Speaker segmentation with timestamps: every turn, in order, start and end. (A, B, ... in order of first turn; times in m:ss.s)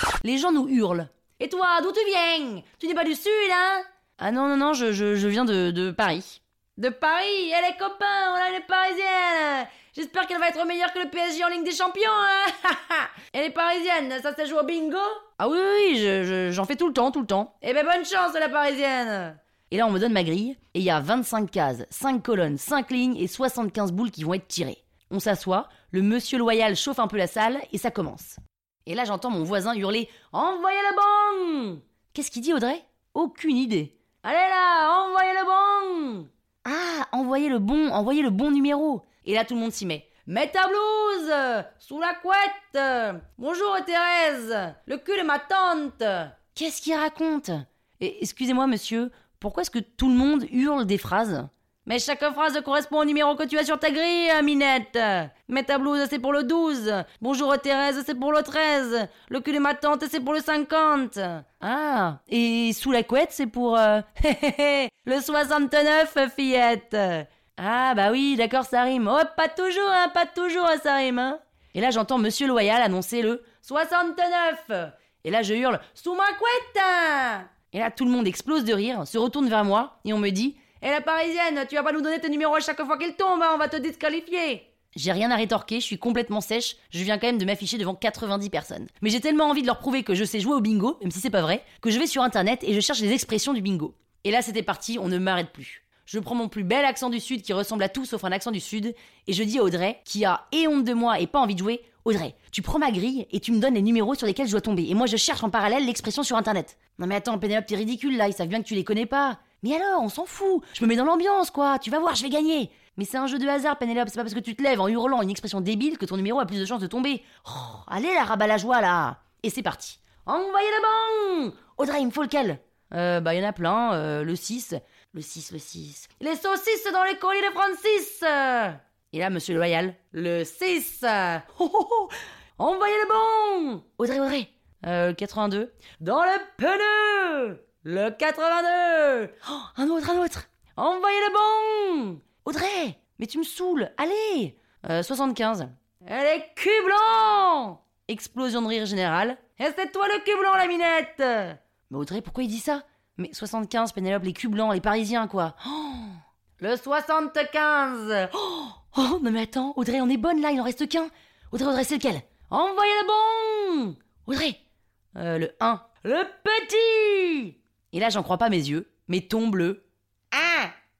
0:00.2-2:44.6 A
2:45.2-2:50.7 A